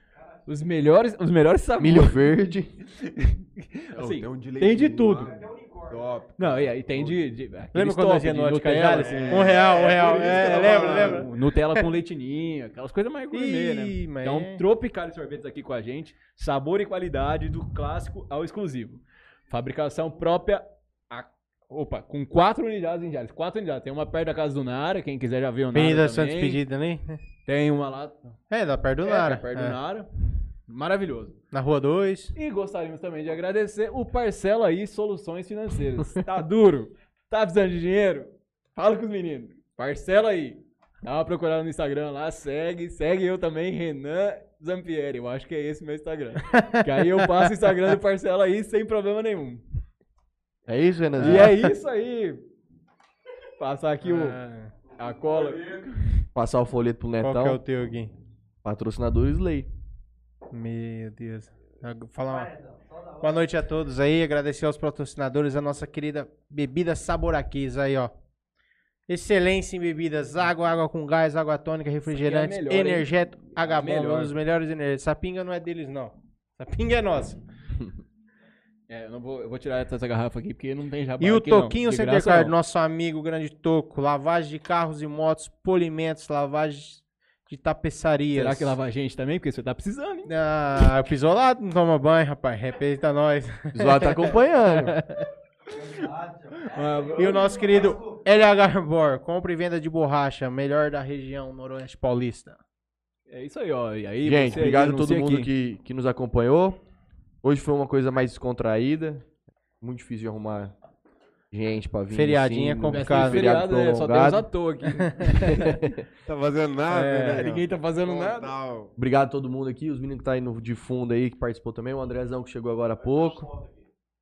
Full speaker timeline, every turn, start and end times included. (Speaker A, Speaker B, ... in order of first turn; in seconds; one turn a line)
Speaker A: 0.5-2.3
Speaker B: 1.8-2.7
Speaker A: 2.9-5.5
Speaker C: 4.0-7.2
Speaker A: 6.4-9.6
Speaker D: 7.7-11.8
Speaker C: 8.9-11.3
Speaker A: 10.2-26.6
Speaker D: 13.3-14.6
Speaker D: 25.7-27.2
Speaker A: 27.4-28.2
Speaker D: 28.5-29.8
Speaker A: 29.0-30.1
Speaker A: 30.7-31.4
Speaker D: 31.5-32.3
Speaker A: 32.3-49.6
Speaker D: 46.5-47.5
Speaker B: 50.6-51.7
Speaker A: 51.2-52.4
Speaker D: 51.2-51.5
Speaker A: 53.6-54.4
Speaker D: 54.0-54.7
Speaker A: 54.9-56.2
Speaker B: 56.3-57.6
Speaker D: 57.2-58.1
Speaker B: 58.6-59.7
Speaker D: 60.5-62.5
Speaker D: 63.2-68.1
Speaker D: 69.1-77.4
Speaker A: 72.1-74.3
Speaker A: 78.9-82.5
Speaker D: 81.2-88.8
Speaker A: 88.3-90.3
Speaker D: 90.3-95.2
Speaker B: 93.7-95.0
Speaker A: 96.5-97.7
Speaker D: 97.2-102.6
Speaker A: 103.3-105.5
Speaker B: 104.2-106.8
Speaker B: 107.4-109.2
Speaker B: 109.8-110.7
Speaker B: 111.5-114.5
Speaker D: 112.1-113.5
Speaker A: 112.9-115.9
Speaker D: 115.0-115.5
Speaker B: 115.4-116.0
Speaker C: 116.2-118.9
Speaker D: 116.9-117.5
Speaker A: 117.3-118.5
Speaker B: 119.0-123.6